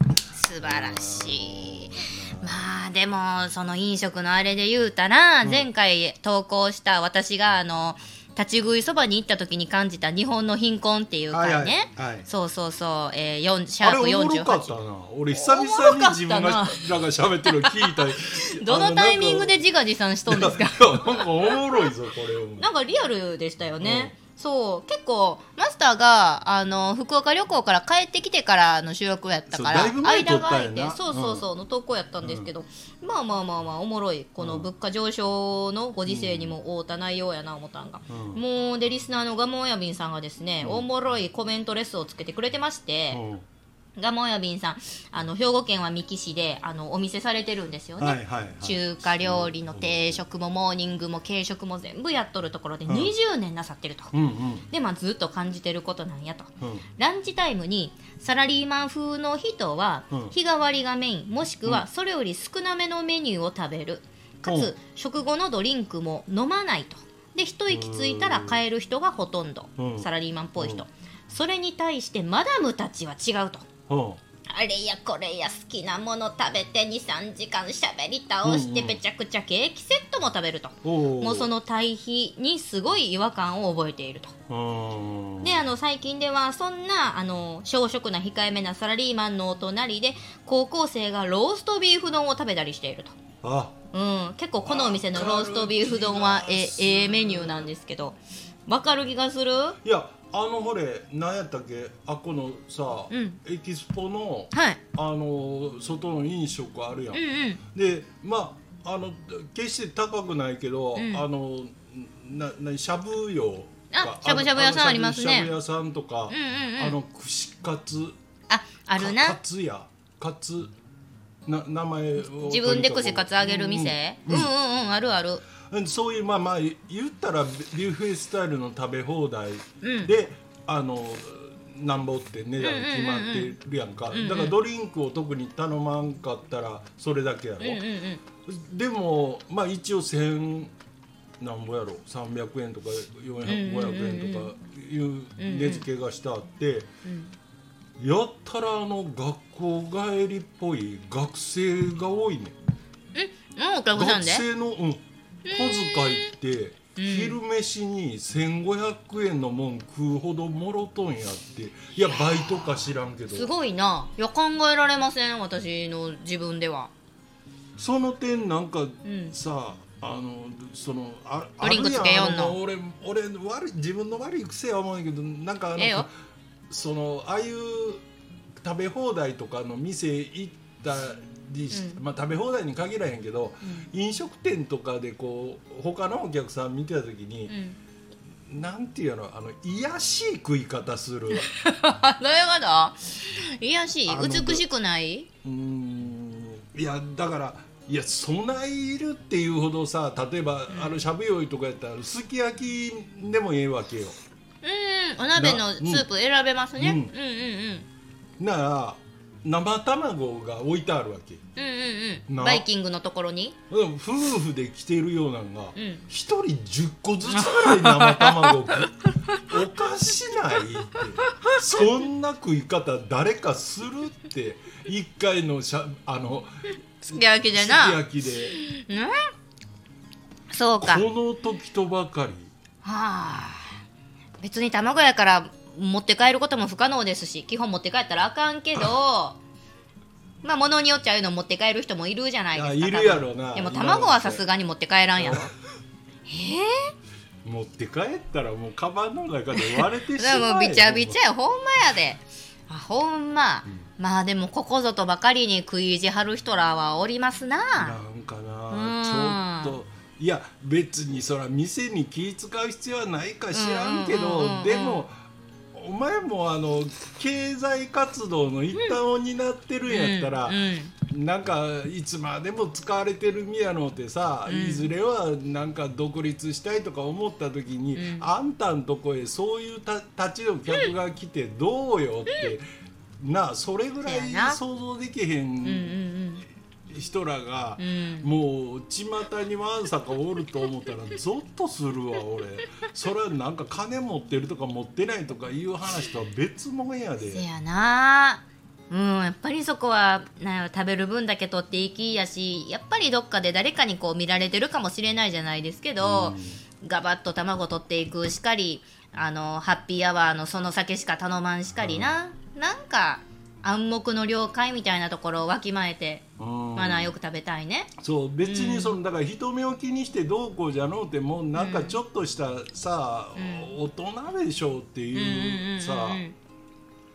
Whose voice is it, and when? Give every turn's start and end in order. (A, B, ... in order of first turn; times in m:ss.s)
0:00.3-0:14.7 A
0:00.6-0:02.6 B
0:11.3-0:12.3 B
0:13.8-0:19.6 B
0:15.3-0:16.9 A
0:17.4-0:21.9 A
0:20.3-0:22.7 B
0:22.6-0:43.2 A
0:23.8-0:24.1 B
0:29.5-0:31.4 B
0:32.2-0:32.5 B
0:34.4-0:34.7 B
0:36.0-0:36.6 B
0:38.1-0:38.4 B
0:40.6-0:40.9 B
0:43.1-0:43.4 B
0:44.0-0:54.1 A
0:48.0-0:50.2 B
0:52.9-0:53.1 B
0:54.1-0:54.7 B
0:54.7-1:13.6 A
0:56.6-0:56.8 B
1:00.1-1:00.3 B
1:04.4-1:04.7 B
1:07.7-1:08.6 B
1:09.8-1:10.8 B
1:13.9-1:14.2 B
1:14.5-1:24.3 A
1:18.4-1:19.0 B
1:20.8-1:21.5 B
1:24.5-1:25.6 B
1:25.4-1:33.2 A
1:33.4-1:33.7 B
1:33.9-1:39.8 A
1:34.6-1:37.7 B
1:39.8-1:58.2 B
1:43.1-1:43.4 A
1:44.5-1:44.8 A
1:47.1-1:47.6 A
1:51.0-1:51.2 A
1:53.9-1:55.5 A
1:56.3-1:57.0 A
1:58.5-1:59.4 A
1:59.0-2:00.7 B
2:01.4-2:04.5 B
2:02.2-2:05.4 A
2:05.6-2:17.8 B
2:09.8-2:10.1 A
2:12.6-2:13.6 A
2:14.1-2:14.6 A
2:17.6-2:18.2 A
2:18.4-2:20.7 B
2:21.4-2:26.9 B
2:23.4-2:24.5 A
2:25.4-2:25.8 A
2:27.0-2:27.3 A
2:28.0-2:32.5 B
2:33.1-2:34.4 A
2:33.9-2:43.5 B
2:35.4-2:36.3 A
2:37.0-2:37.4 A
2:42.0-2:46.9 A
2:47.8-2:56.1 B
2:49.0-2:49.4 A
2:51.6-2:52.6 A
2:55.8-2:56.1 A
2:56.7-2:58.0 B
2:58.6-3:07.5 B
3:01.7-3:02.0 A
3:07.5-3:07.8 A
3:08.5-3:11.4 B
3:11.3-3:15.3 A
3:14.0-3:14.6 B
3:15.4-3:24.2 B
3:20.7-3:21.0 A
3:24.6-3:27.9 A
3:25.3-3:26.1 B
3:26.8-3:27.1 B
3:28.4-3:31.4 B
3:31.6-3:33.6 A
3:32.3-3:32.6 B
3:33.7-3:38.9 B
3:35.8-3:36.0 A
3:37.3-3:39.4 A
3:39.5-3:48.6 B
3:41.2-3:41.6 A
3:47.1-3:49.1 A
3:50.5-3:51.0 A
3:50.8-3:52.5 B
3:52.8-3:53.8 A
3:54.4-3:59.4 A
4:00.4-4:05.5 A
4:02.5-4:04.4 B
4:05.2-4:05.5 B
4:06.3-4:06.9 A
4:07.4-4:11.2 B
4:09.5-4:18.0 A
4:17.8-4:25.2 B
4:18.7-4:19.7 A
4:23.5-4:25.0 A
4:25.7-4:42.6 B
4:29.9-4:30.9 A
4:34.4-4:34.9 A
4:37.9-4:38.3 A
4:43.2-4:46.0 B
4:44.0-4:44.6 A
4:45.6-4:46.4 A
4:46.9-4:57.4 B
4:47.8-4:48.3 A
4:57.2-5:16.2 A
5:06.0-5:06.6 B
5:11.8-5:12.2 B
5:16.4-5:17.1 B
5:16.8-5:17.9 A
5:18.0-5:26.2 B
5:18.4-5:19.0 A
5:21.5-5:22.0 A
5:23.4-5:23.7 A
5:25.1-5:26.3 A